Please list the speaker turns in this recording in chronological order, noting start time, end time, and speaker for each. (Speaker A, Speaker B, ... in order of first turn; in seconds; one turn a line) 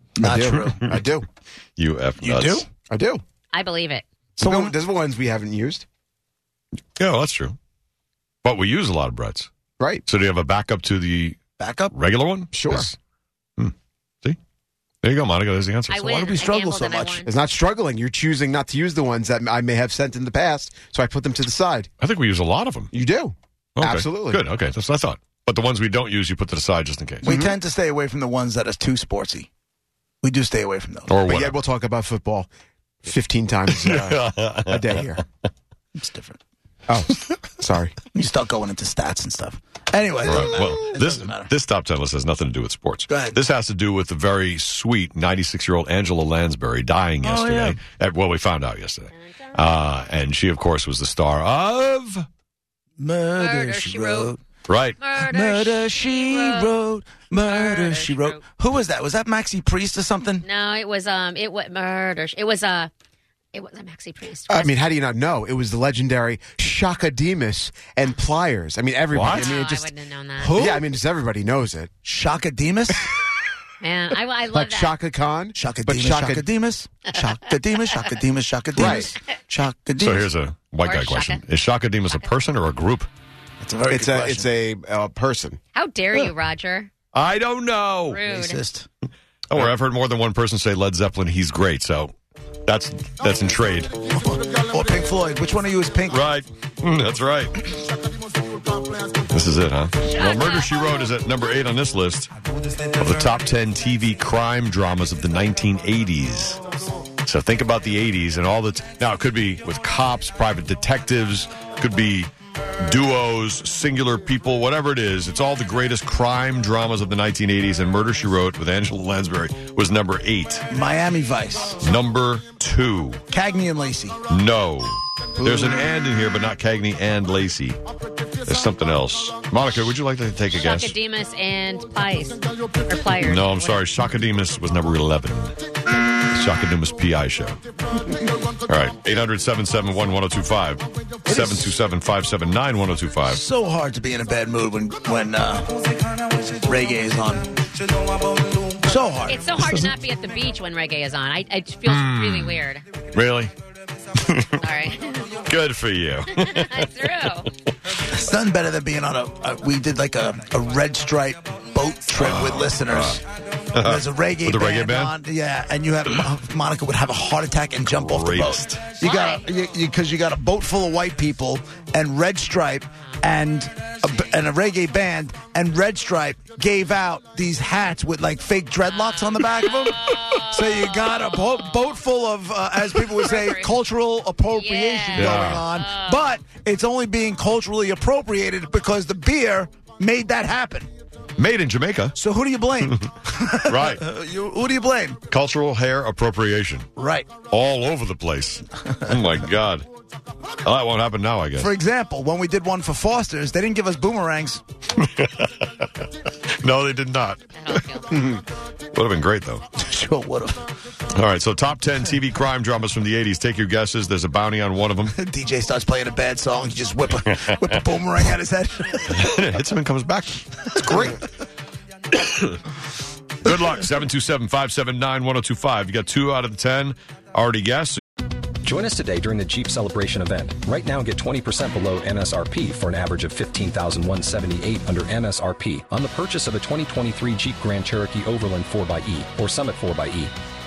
Speaker A: 0.2-0.8
Speaker B: 0.2-1.2
Speaker C: 0.3-1.0
Speaker C: 1.8-2.6
Speaker A: 2.2-2.7
Speaker B: 2.8-3.2
Speaker D: 3.5-4.1
Speaker B: 4.4-5.8
Speaker A: 4.4-4.7
Speaker C: 7.0-7.6
Speaker C: 8.4-9.5
Speaker C: 10.1-11.4
Speaker A: 11.6-11.9
Speaker C: 11.9-12.9
Speaker B: 12.5-12.9
Speaker C: 13.6-14.4
Speaker C: 15.0-16.0
Speaker D: 15.9-17.3
Speaker A: 16.0-17.2
Speaker B: 17.2-21.9
Speaker C: 22.0-22.9
Speaker B: 22.9-24.4
Speaker C: 23.8-27.3
Speaker A: 27.2-29.5
Speaker B: 27.2-27.6
Speaker A: 30.2-31.1
Speaker C: 31.1-31.6
Speaker B: 31.2-32.5
Speaker B: 33.0-35.2
Speaker C: 33.7-34.9
Speaker A: 36.0-36.4
Speaker B: 36.9-38.0
Speaker A: 38.1-41.5
Speaker C: 40.2-52.2
Speaker A: 43.1-43.4
Speaker A: 47.2-47.8
Speaker D: 49.2-49.6
Speaker A: 53.0-54.4
Speaker D: 53.4-54.3
Speaker C: 54.7-55.0
Speaker D: 55.0-56.7
Speaker A: 55.2-60.5
Speaker D: 57.4-58.4
Speaker D: 60.4-62.9
Speaker D: 63.5-64.8
Speaker B: 64.5-71.9
Speaker C: 69.1-69.7
Speaker D: 69.3-70.7
Speaker A: 72.0-73.1
Speaker D: 73.8-74.9
Speaker B: 74.5-76.5
Speaker A: 75.5-80.3
Speaker B: 78.8-79.1
Speaker C: 80.0-83.1
Speaker D: 80.8-81.4
Speaker A: 83.6-84.5
Speaker B: 83.8-85.6
Speaker D: 85.7-86.9
Speaker C: 87.1-88.2
Speaker D: 88.1-88.6
Speaker A: 88.2-88.9
Speaker C: 89.5-92.1
Speaker C: 92.6-94.0
Speaker A: 94.2-96.2
Speaker C: 96.1-97.7
Speaker C: 99.3-102.3
Speaker D: 100.0-100.9
Speaker C: 102.9-106.6
Speaker C: 107.2-112.3
Speaker C: 112.8-120.7
Speaker A: 120.7-121.8
Speaker C: 121.8-123.2
Speaker A: 123.3-124.2
Speaker C: 124.3-127.8
Speaker A: 125.4-125.8
Speaker C: 128.4-130.9
Speaker D: 130.6-133.8
Speaker C: 133.2-135.6
Speaker C: 136.3-137.6
Speaker C: 138.7-143.4
Speaker A: 141.3-141.6
Speaker A: 143.3-145.8
Speaker A: 146.4-147.7
Speaker A: 148.7-149.5
Speaker D: 149.2-152.8
Speaker C: 149.6-149.9
Speaker C: 151.8-153.5
Speaker C: 154.2-154.6
Speaker D: 154.5-155.4
Speaker C: 155.4-156.9
Speaker D: 156.4-157.5
Speaker A: 157.9-163.2
Speaker C: 162.2-163.2
Speaker C: 163.7-165.1
Speaker A: 163.8-180.0
Speaker C: 167.8-168.9
Speaker D: 169.0-169.4
Speaker D: 178.9-180.9
Speaker A: 180.5-190.9
Speaker D: 183.2-183.7
Speaker D: 184.5-186.3
Speaker C: 185.2-185.7
Speaker C: 191.4-192.2
Speaker A: 192.1-195.2
Speaker C: 193.6-194.0
Speaker C: 195.3-196.9
Speaker A: 196.9-197.3
Speaker C: 197.5-199.9
Speaker A: 198.9-199.2
Speaker C: 200.6-201.7
Speaker A: 201.6-204.6
Speaker C: 205.0-205.9
Speaker C: 206.6-209.6
Speaker D: 207.6-208.2
Speaker A: 209.8-210.6
Speaker C: 211.1-215.1
Speaker A: 215.1-219.4
Speaker C: 219.1-221.2
Speaker C: 222.2-222.6
Speaker C: 223.4-228.0
Speaker E: 228.6-240.3